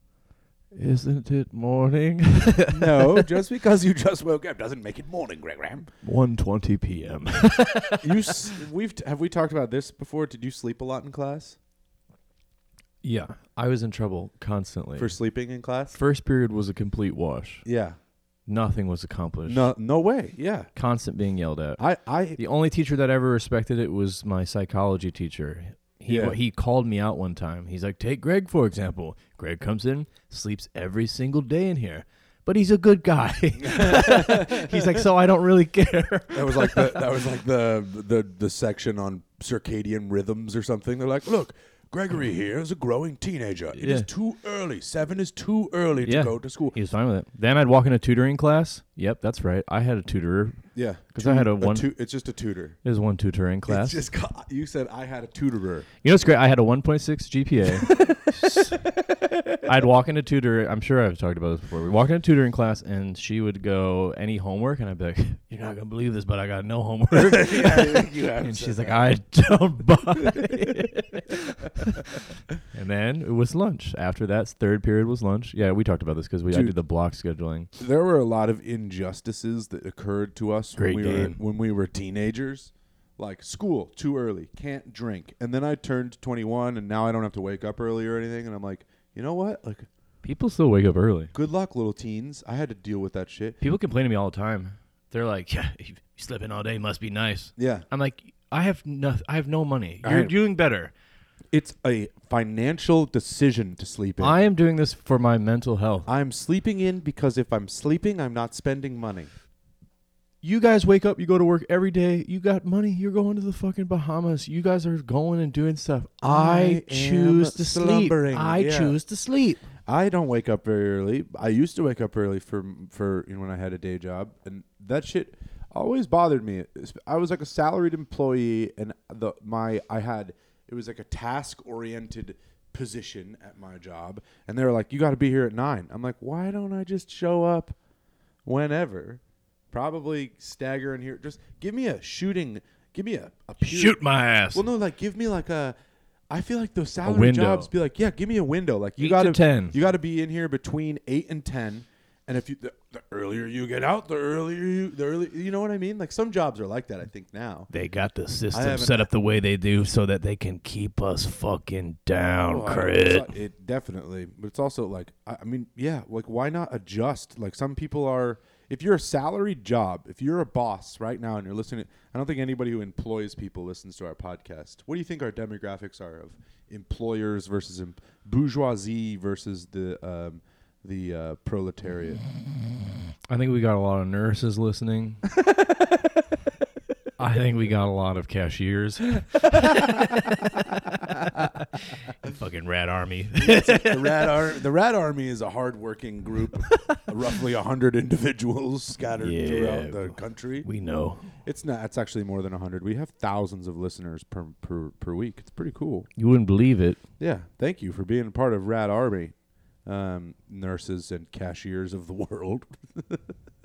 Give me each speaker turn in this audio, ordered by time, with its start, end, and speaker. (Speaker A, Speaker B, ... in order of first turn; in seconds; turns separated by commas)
Speaker A: 0.7-3.3, Speaker B: 2.7-5.9, Speaker A: 6.0-8.3, Speaker B: 8.0-11.6, Speaker A: 13.0-15.1, Speaker B: 15.0-16.0, Speaker A: 15.9-17.6, Speaker B: 17.6-18.0, Speaker A: 18.4-19.7, Speaker B: 19.4-20.7, Speaker A: 20.8-21.8, Speaker B: 21.8-22.4, Speaker A: 22.4-37.1, Speaker B: 26.1-26.4, Speaker B: 33.6-35.0, Speaker B: 36.3-46.8, Speaker A: 43.8-44.1, Speaker A: 46.0-51.9, Speaker B: 50.8-52.8, Speaker A: 52.8-54.0, Speaker B: 53.7-55.9, Speaker A: 56.0-58.8, Speaker B: 57.8-59.6, Speaker A: 59.6-77.7, Speaker B: 67.1-69.1, Speaker B: 70.3-70.6, Speaker B: 76.5-76.8, Speaker B: 77.8-89.9, Speaker A: 80.8-81.4, Speaker A: 90.2-91.3, Speaker B: 91.3-93.6, Speaker A: 93.6-100.9, Speaker B: 97.6-97.8, Speaker B: 100.0-100.3, Speaker B: 101.5-104.4, Speaker A: 104.2-106.1, Speaker B: 106.0-109.3, Speaker A: 110.4-119.6, Speaker B: 116.2-119.0, Speaker B: 119.8-137.8, Speaker B: 138.4-139.2, Speaker B: 139.7-144.0, Speaker A: 143.6-144.7, Speaker B: 144.5-145.8, Speaker B: 146.3-157.7, Speaker A: 147.0-147.7, Speaker A: 149.0-149.8, Speaker A: 157.7-163.3, Speaker B: 158.5-159.1, Speaker B: 162.5-182.2, Speaker A: 183.3-185.2, Speaker B: 185.4-185.8, Speaker A: 187.2-190.6, Speaker B: 189.5-191.4, Speaker A: 191.2-194.3, Speaker B: 193.3-200.7, Speaker A: 196.7-197.0, Speaker A: 199.2-201.3, Speaker B: 201.4-206.1, Speaker A: 206.2-207.0, Speaker B: 207.2-209.3, Speaker B: 209.8-213.3